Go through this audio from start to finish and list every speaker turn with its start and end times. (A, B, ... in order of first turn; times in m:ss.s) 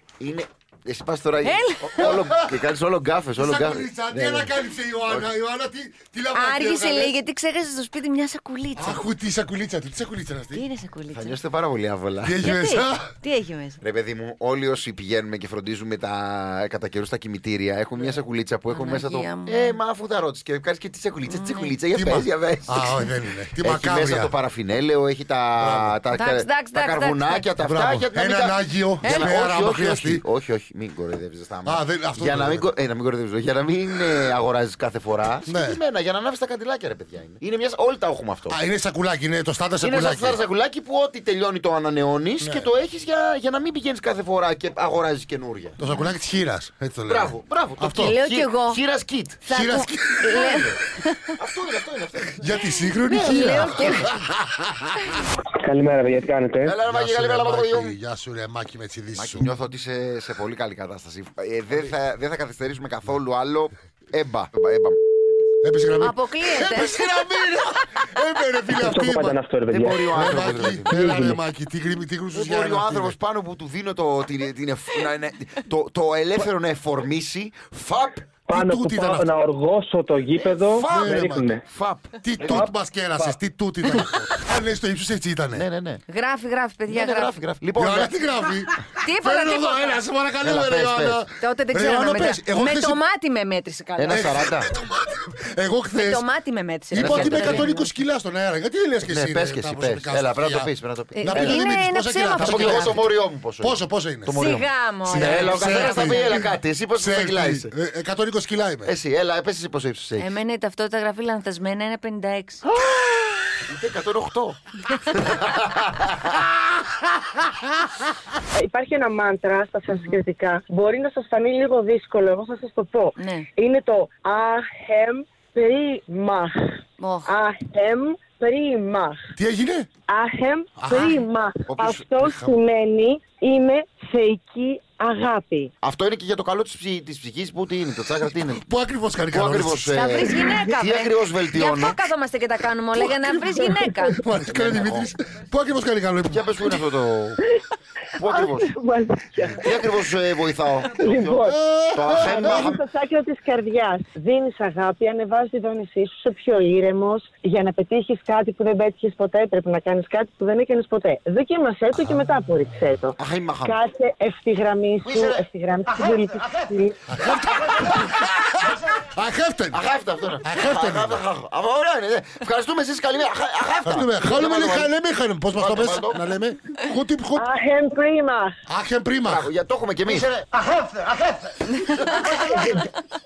0:00.2-0:04.5 A
0:01.4-0:02.1 B
0:02.0-0:02.7 C
0:03.4-0:07.2 C
0:06.3-0:09.1 B
0:08.8-0:10.6 C
0:10.5-0:11.4 B
0:11.1-0:12.4 A
0:12.2-0:13.1 C
0:12.4-0:13.8 B
0:13.8-0:38.6 A
0:18.7-0:19.8 B
0:21.3-0:21.7 B
0:21.9-0:24.3 C
0:25.6-0:26.0 C
0:26.1-0:27.5 B
0:27.6-0:30.2 C
0:31.6-0:32.7 C
0:35.5-0:35.8 C
0:38.5-0:40.4 C
0:39.8-0:45.8 A
0:42.4-0:42.7 C
0:45.8-0:48.2 C
0:47.1-0:49.4 A
0:47.9-0:48.8 B
0:49.4-0:50.7 B
0:49.5-0:50.7 C
0:50.3-0:50.8 A
0:51.4-0:52.8 A
0:52.4-0:54.0 C
0:53.1-0:54.1 B
0:53.6-0:54.0 A
0:55.6-0:56.8 D
0:56.6-0:58.0 A
0:56.8-0:59.5 C
0:59.2-1:05.0 A
1:05.6-1:09.4 C
1:06.0-1:06.9 B
1:08.8-1:10.3 D
1:09.7-1:11.1 A
1:10.1-1:13.2 C
1:10.9-1:11.4 D
1:12.3-1:18.5 A
1:18.5-1:21.6 D
1:18.6-1:19.3 C
1:20.4-1:21.1 A
1:20.9-1:21.5 C
1:21.7-1:22.5 A
1:22.2-1:25.6 C
1:22.4-1:23.4 D
1:25.5-1:26.0 A
1:26.1-1:27.3 B
1:26.9-1:28.1 A
1:27.8-1:33.0 C
1:29.0-1:30.0 B
1:30.4-1:31.2 A
1:31.4-1:34.4 B
1:34.0-1:34.7 A
1:34.1-1:36.3 C
1:35.9-1:37.9 B
1:36.9-1:40.7 C
1:36.9-1:37.7 A
1:39.0-1:41.7 A
1:41.2-1:43.0 B
1:41.2-1:44.4 C
1:42.4-1:47.7 A
1:44.4-1:46.3 B
1:45.0-1:48.9 C
1:48.8-1:50.4 A
1:50.2-1:52.6 B
1:52.7-1:54.6 A
1:55.1-1:56.4 A
1:58.6-2:09.2 E
2:03.2-2:03.5 B
2:07.0-2:07.3 B
2:09.4-2:09.9 C
2:10.1-2:15.7 E
2:10.8-2:11.2 C
2:11.7-2:12.3 A
2:12.2-2:12.5 C
2:15.8-2:18.6 A
2:18.2-2:20.1 C
2:19.3-2:22.0 A
2:19.9-2:24.2 B
2:24.0-2:26.6 C
2:24.5-2:25.1 A
2:26.3-2:27.4 A
2:28.2-2:28.7 A
2:28.2-2:29.9 E
2:29.6-2:32.8 A
2:31.0-2:31.5 E
2:31.4-2:32.7 C
2:32.1-2:47.0 E
2:43.2-2:43.8 A
2:45.0-2:45.5 A
2:47.1-2:48.4 C
2:48.9-2:49.8 C
2:49.7-2:54.9 A
2:50.4-2:51.2 C
2:53.8-2:57.5 C
2:55.5-2:56.3 A
2:57.4-2:58.5 E
2:58.7-2:59.5 C
2:59.3-3:00.3 A
3:00.1-3:02.9 C
3:02.0-3:02.8 A